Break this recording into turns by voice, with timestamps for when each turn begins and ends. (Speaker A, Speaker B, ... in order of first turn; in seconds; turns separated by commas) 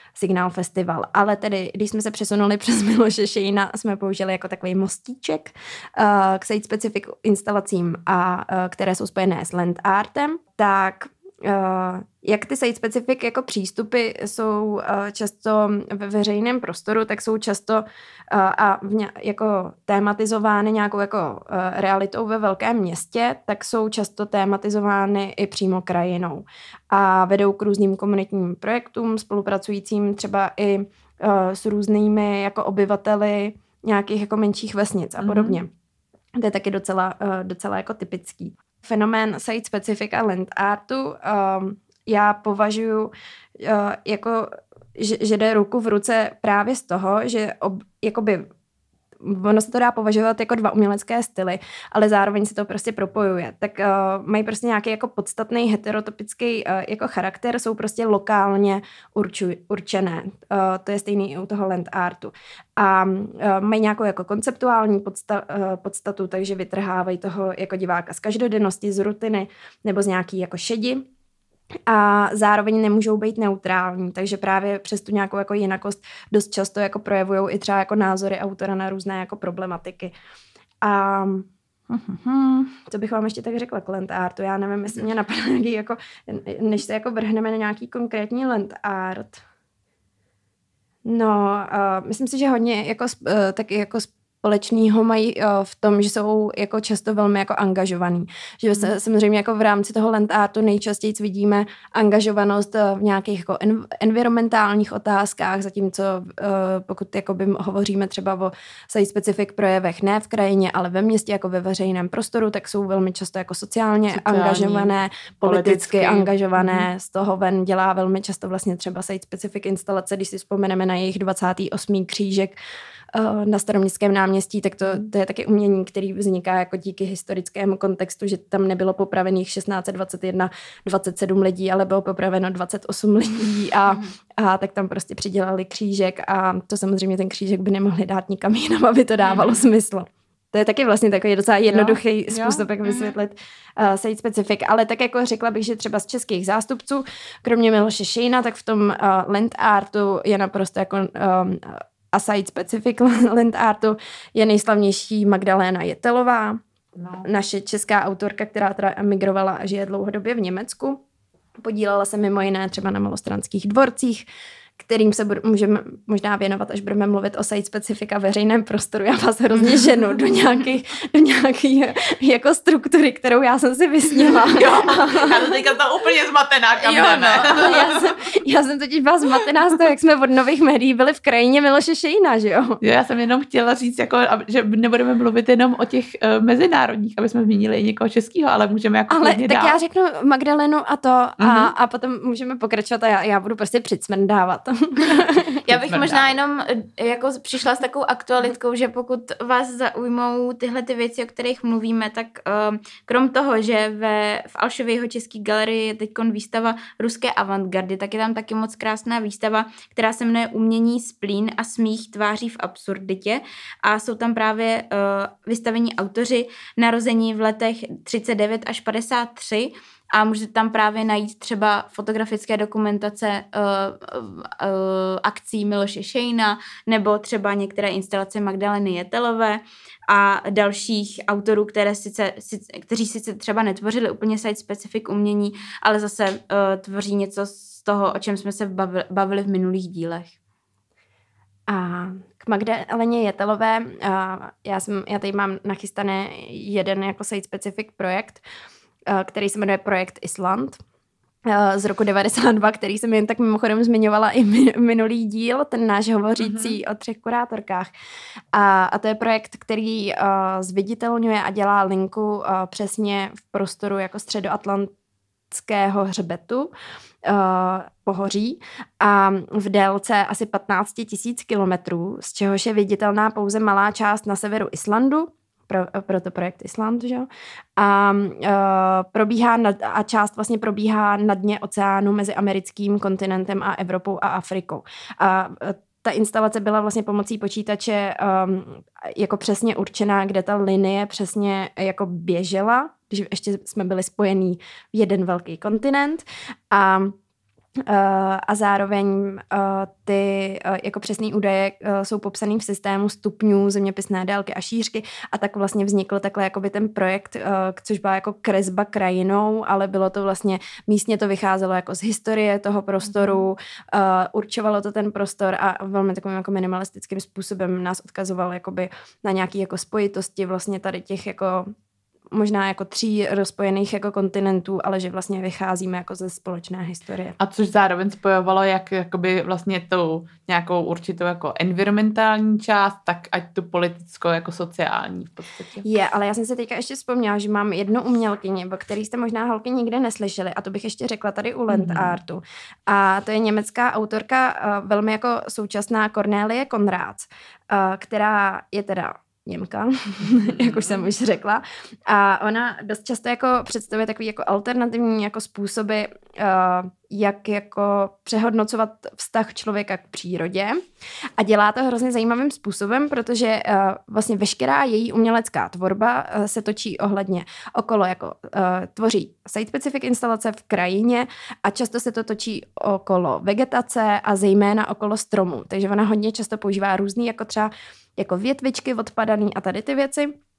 Speaker A: 0.2-35.7, Speaker B: 35.2-35.6, Speaker A: 36.4-48.5, Speaker A: 49.2-71.1, Speaker A: 71.9-80.1, Speaker A: 80.8-89.4, Speaker A: 91.1-122.6, Speaker B: 114.1-116.9, Speaker A: 123.1-156.6, Speaker C: 139.2-139.6, Speaker B: 141.7-142.6, Speaker C: 142.8-143.1, Speaker B: 157.0-157.3, Speaker A: 157.2-161.0, Speaker A: 161.6-164.2, Speaker A: 164.8-175.3, Speaker C: 169.5-169.9, Speaker B: 174.2-178.0, Speaker C: 176.8-177.8, Speaker A: 177.5-182.8, Speaker B: 182.8-189.8, Speaker A: 189.1-195.6, Speaker B: 191.4-191.7, Speaker C: 195.7-240.3, Speaker B: 195.7-196.3, Speaker A: 241.7-248.4, Speaker A: 249.1-250.8, Speaker A: 251.5-257.9, Speaker B: 256.4-256.8, Speaker A: 258.5-264.9, Speaker A: 265.5-266.7, Speaker A: 267.2-297.2, Speaker A: 297.9-321.7, Speaker B: 313.1-313.4, Speaker A: 322.3-327.4, Speaker B: 327.4-335.9, Speaker A: 335.8-360.8, Speaker B: 341.7-342.2, Speaker B: 350.3-351.1, Speaker A: 361.4-380.4